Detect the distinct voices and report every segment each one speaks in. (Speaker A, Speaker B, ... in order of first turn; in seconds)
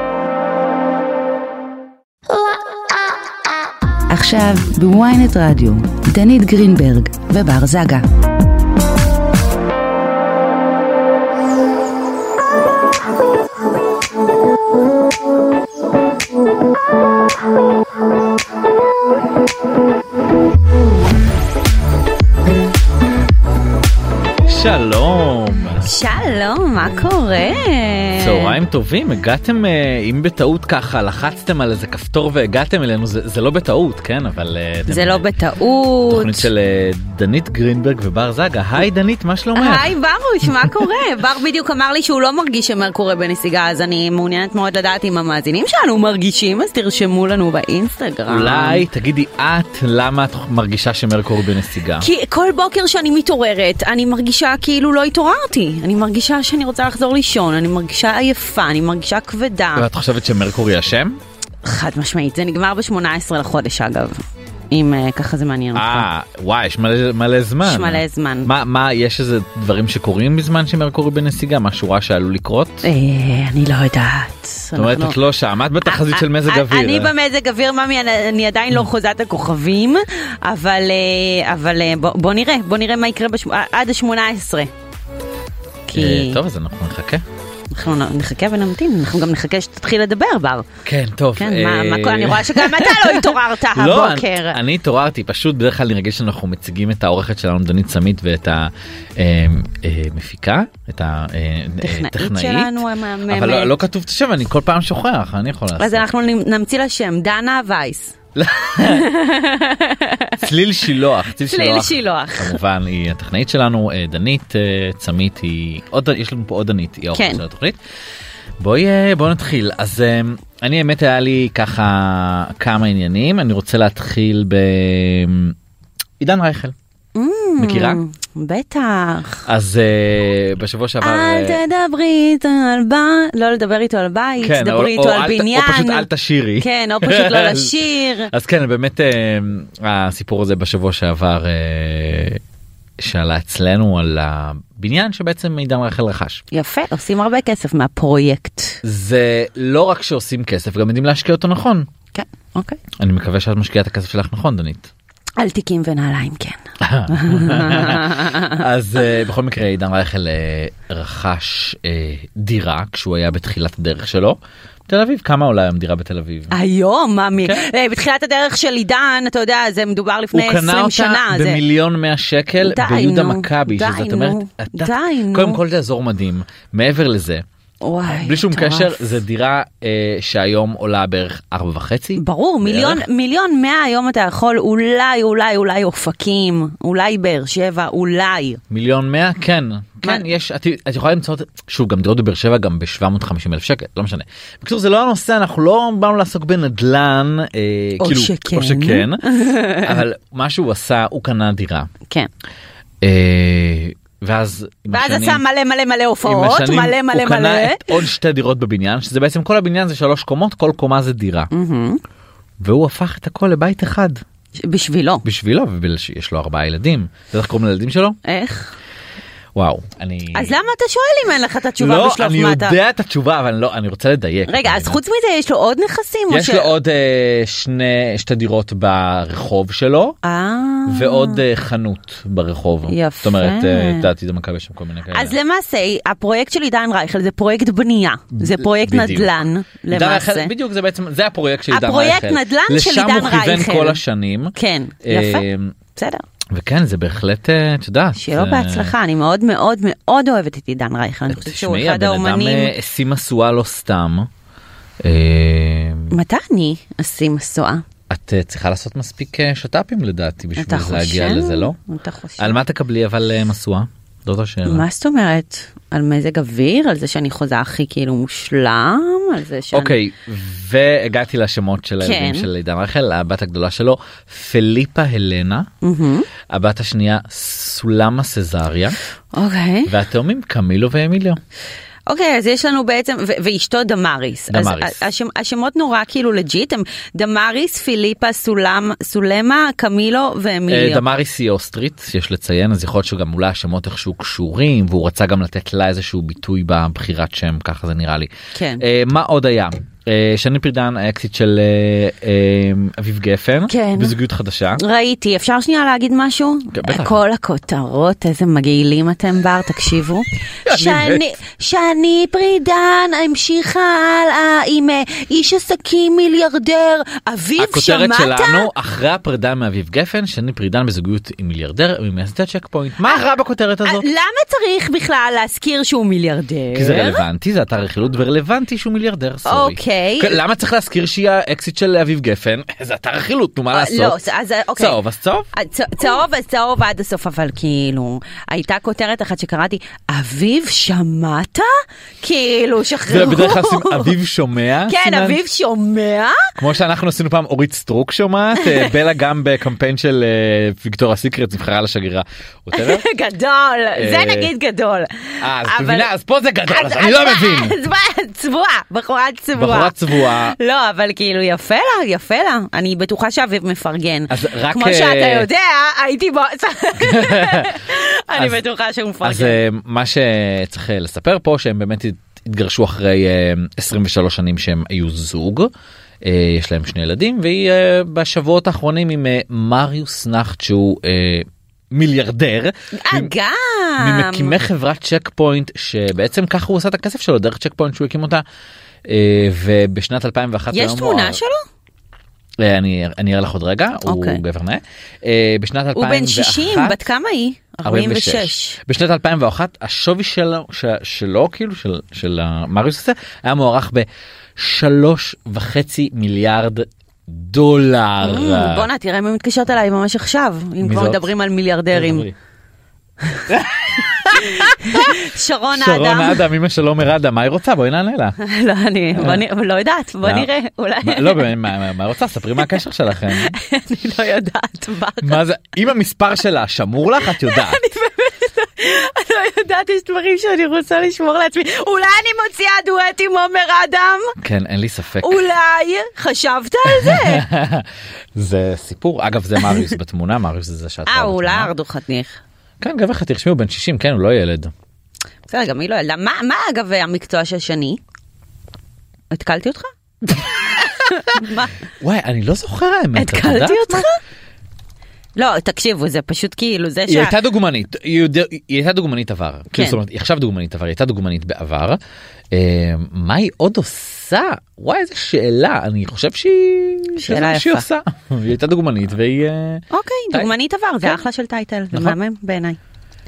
Speaker A: 4.1-8.1, 25.9-28.6, 34.9-36.5, 39.5-48.8, 52.0-59.9, 61.6-66.1, 67.6-68.5, 72.8-75.2, 75.8-84.7, 85.9-86.4, 87.7-90.7, 91.4-94.6, 101.8-103.7, 105.8-110.5, 111.4-112.6, 117.1-117.4, 127.2-129.4, 131.0-136.1, 136.6-138.3, 146.5-148.8, 152.1-152.8, 155.4-158.6, 166.5-171.6, 172.6-175.6, 177.8-179.1, 182.2-188.6, 198.0-200.0, 204.9-208.0, 211.5-212.0, 214.6-215.2, 218.2-218.7, 220.3-222.8, 224.5-226.7, 230.2-231.4, 232.9-234.1, 235.1-240.5, 241.7-244.0, 244.6-246.2, 248.2-252.7, 256.1-257.8, 260.6-262.6, 264.7-269.9, 272.0-272.5, 275.8-276.3, 279.3-279.9, 282.1-291.0, 298.6-298.8, 303.7-304.2, 304.8-318.7, 323.9-327.2, 329.5-330.4, 333.7-335.0, 335.5-344.1, 344.9-346.4, 348.6-348.9, 352.7-356.1, 356.7-369.6, 383.0-384.6, 390.7-391.6, 394.1-394.4, 395.9-398.8, 408.2-412.3, 414.3-416.4, 418.4-421.5, 423.4-425.4, 427.4-434.3, 435.2-437.5, 441.1-442.4, 445.5-448.0, 449.3-449.9, 450.8-451.8, 453.1-454.2, 455.4-457.4, 459.7-460.0, 467.2-467.9, 469.9-472.8
Speaker B: 24.5-25.9, 28.2-35.3, 36.1-39.9, 48.3-52.1, 59.8-61.2, 65.8-72.9, 74.8-77.1, 85.9-87.2, 90.8-106.0, 108.4-109.1, 110.4-117.8, 118.6-125.6, 126.2-126.8, 127.6-128.0, 129.5-131.6, 134.4-142.4, 143.0-146.4, 148.8-151.9, 153.0-154.9, 156.8-166.5, 167.4-167.7, 170.3-177.4, 178.1-183.0, 188.7-201.9, 203.0-205.4, 206.2-211.5, 212.6-214.2, 215.2-218.2, 219.6-220.5, 221.8-225.0, 226.3-230.2, 230.9-235.4, 238.4-239.3, 239.9-245.8, 246.5-248.9, 251.3-254.3, 255.0-256.1, 258.1-261.8, 262.4-264.9, 269.7-275.7, 276.5-279.0, 279.9-281.4, 284.5-285.0, 290.7-304.8, 306.7-307.2, 310.6-311.3, 317.6-324.1, 326.7-334.2, 334.8-335.5, 343.1-345.4, 346.6-353.0, 354.0-354.5, 355.4-357.8, 359.6-360.6, 364.3-365.5, 367.0-367.7, 369.2-375.7, 376.2-383.3, 384.0-388.4, 389.1-391.4, 392.6-397.1, 397.8-408.9, 410.8-411.3, 411.9-412.3, 413.5-418.4, 419.1-419.4, 420.2-420.5, 421.0-423.5, 425.2-427.8, 434.4-435.5, 436.9-441.7, 442.8-444.7, 450.2-451.4, 452.0-454.1, 457.1-462.0, 462.5-470.5